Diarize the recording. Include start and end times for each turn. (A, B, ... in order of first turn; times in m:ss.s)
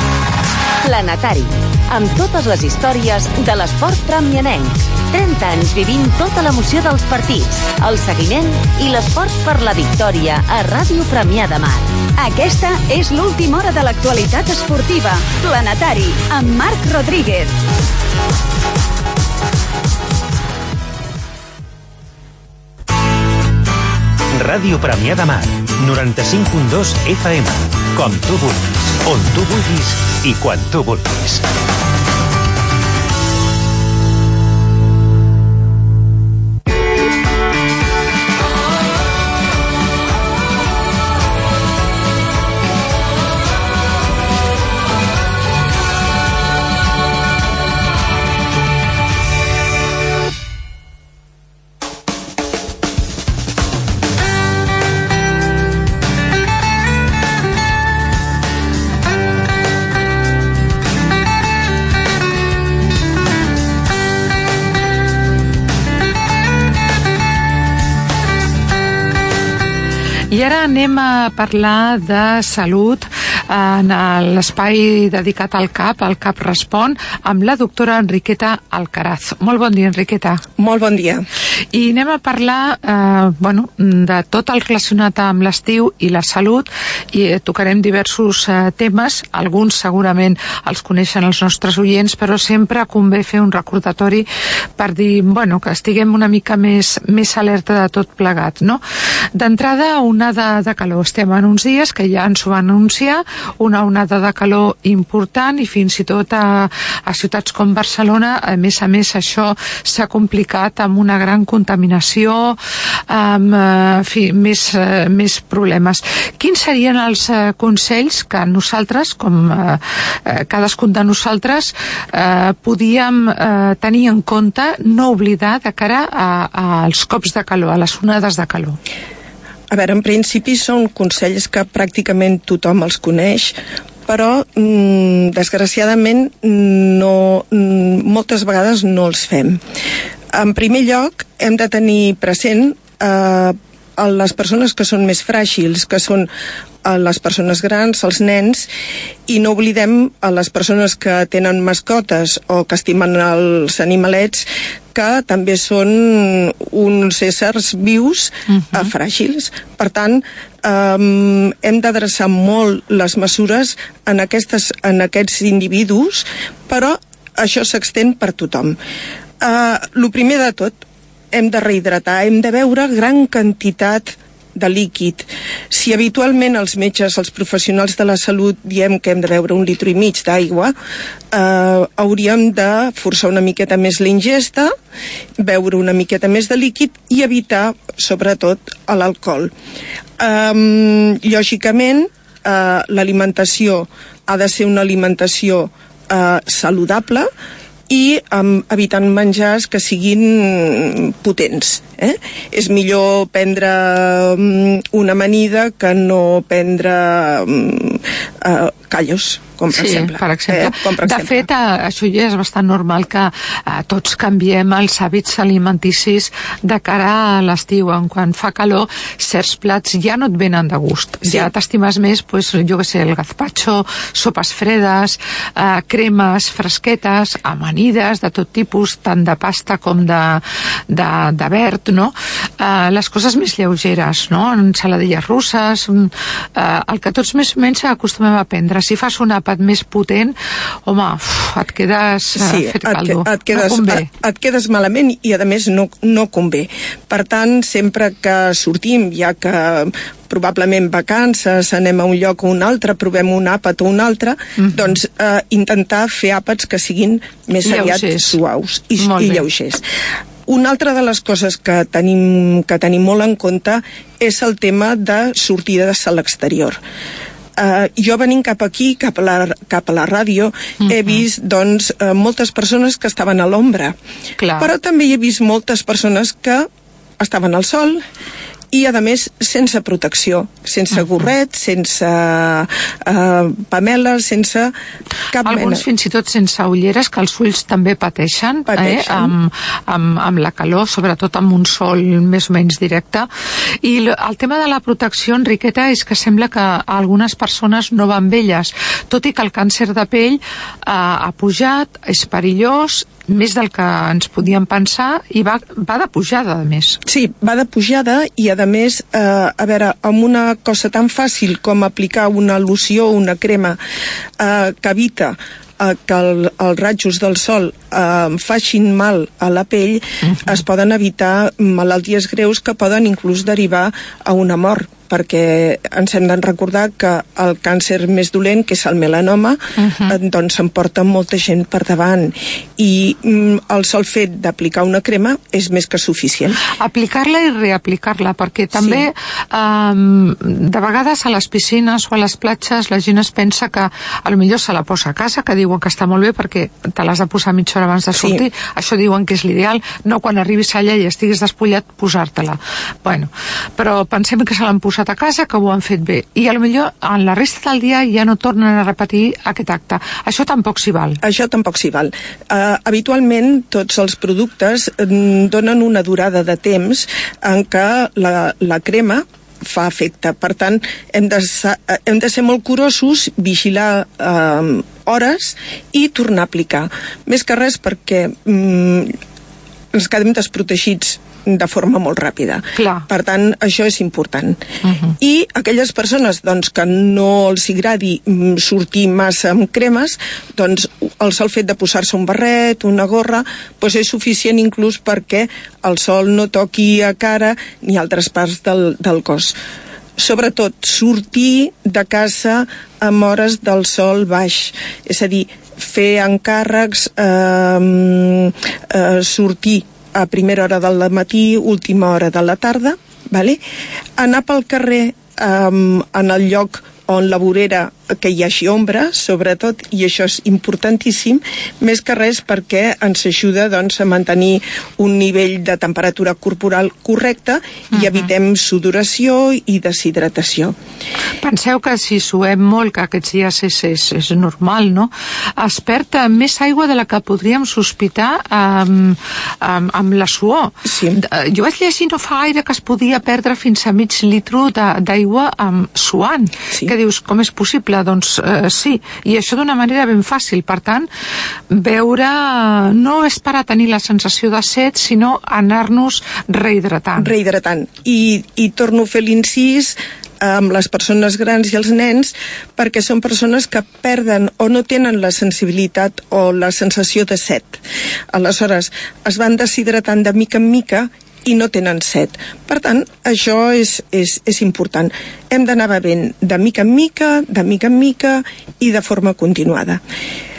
0:00.8-0:11.9 A
0:12.2-0:17.5 B
0:24.3-0:31.4 C
1:10.3-1:20.4 D
1:20.6-1:21.2 E
1:21.7-1:34.3 D
1:34.8-1:38.8 D
1:39.4-1:52.6 D
1:53.1-2:08.8 D
2:09.7-2:13.6 E
2:14.1-2:19.6 E
2:20.3-2:26.3 E
2:26.8-2:28.7 E
2:29.3-2:48.8 E
2:38.5-2:38.9 D
2:49.4-2:50.8 E
2:51.3-3:00.7 E
3:01.3-3:04.7 E
3:05.4-3:09.5 E
3:10.2-3:17.3 E
3:17.9-3:31.5 E
3:29.7-4:00.3 D
4:00.9-4:04.1 D
4:02.4-4:19.8 E
4:14.6-4:14.9 D
4:17.6-4:18.4 D
4:19.0-4:19.5 D
4:20.5-4:26.8 E
4:27.6-4:34.0 E
4:30.8-4:31.2 D
4:34.4-4:34.7 D
4:34.6-4:36.7 E
4:37.2-4:38.0 E
4:38.7-4:44.7 E
4:45.3-4:45.8 E
4:45.4-4:53.3 D
4:48.7-4:49.3 E
4:53.8-5:07.0 D
5:07.1-5:13.8 E
5:14.4-5:36.6 E
5:20.2-5:20.6 D
5:29.8-5:30.2 D
5:36.7-6:01.2 D
5:38.8-5:39.0 E
5:48.2-5:48.4 E
6:01.2-6:19.2 E
6:19.9-6:24.6 E
6:22.8-6:23.1 D
6:24.8-6:25.1 D
6:25.2-6:39.6 E
6:40.2-6:53.6 E
6:54.2-7:10.8 E
7:07.9-7:08.3 D
7:11.4-7:31.1 D
7:20.9-7:21.2 E
7:31.7-7:37.3 D
7:37.2-7:47.8 E
7:48.3-8:00.0 E